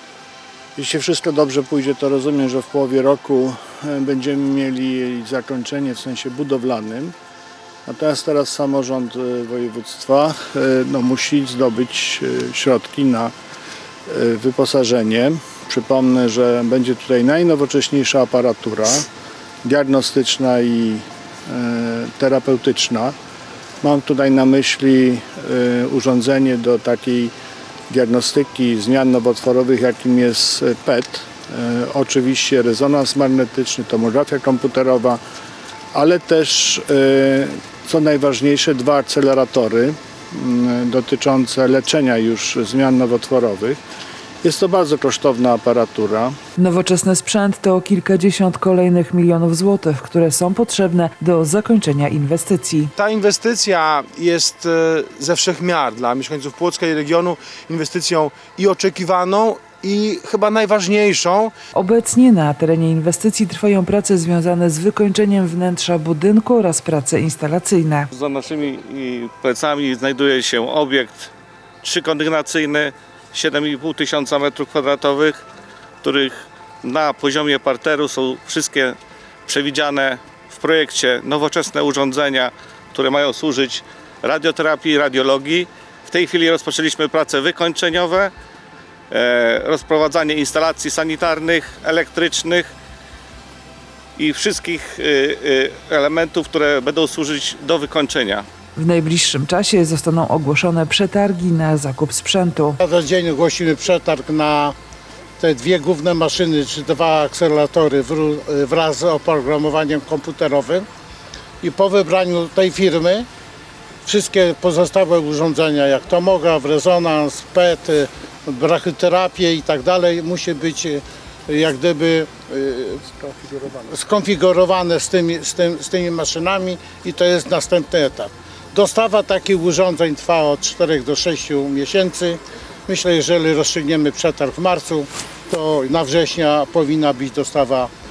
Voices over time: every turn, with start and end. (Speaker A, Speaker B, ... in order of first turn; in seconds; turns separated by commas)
Speaker A: 0.8-7.1, Speaker A: 7.8-13.3, Speaker A: 14.1-19.0, Speaker A: 19.6-23.1, Speaker A: 23.8-27.3, Speaker A: 27.9-35.2, Speaker A: 35.9-43.8, Speaker A: 44.4-46.3, Speaker B: 46.6-52.9, Speaker C: 53.0-61.5, Speaker B: 61.7-68.1, Speaker D: 68.1-75.4, Speaker D: 76.0-88.3, Speaker D: 89.1-92.7, Speaker D: 94.2-98.5, Speaker B: 98.8-102.8, Speaker E: 102.8-104.8, Speaker E: 105.4-110.8, Speaker E: 111.6-113.3, Speaker E: 114.0-137.9